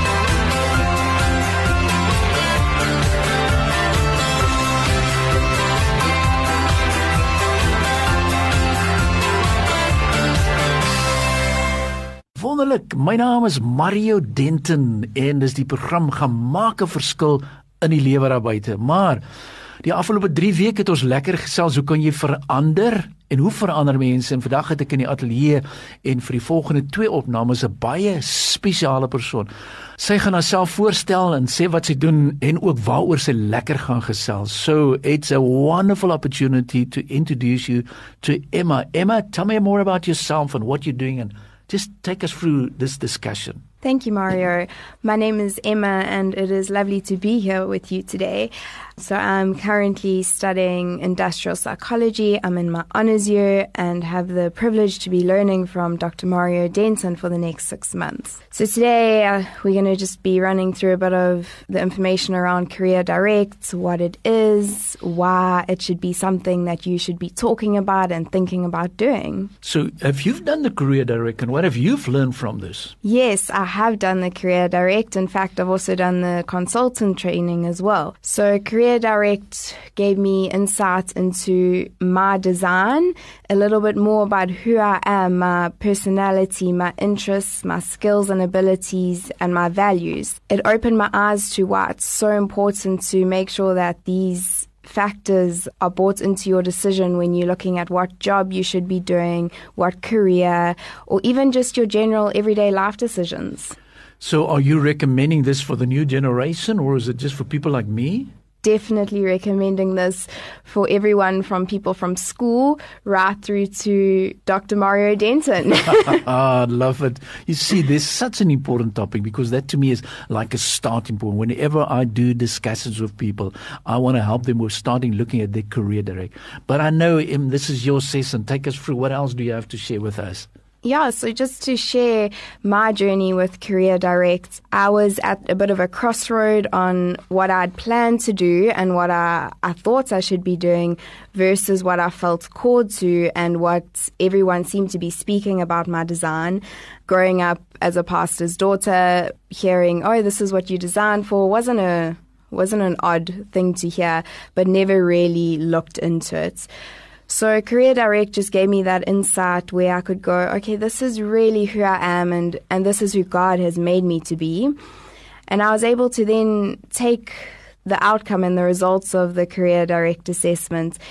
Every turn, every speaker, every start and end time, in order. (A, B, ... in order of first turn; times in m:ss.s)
0:12.4-0:19.2 A
0:19.8-0:43.6 A
0:43.8-1:09.5 B
1:09.6-1:12.9 A
1:13.0-1:43.8 B
1:44.2-1:48.3 A
1:48.6-1:56.2 B
1:56.0-2:10.5 A
2:10.8-2:36.7 B
2:37.3-2:44.7 B
2:45.5-2:51.0 B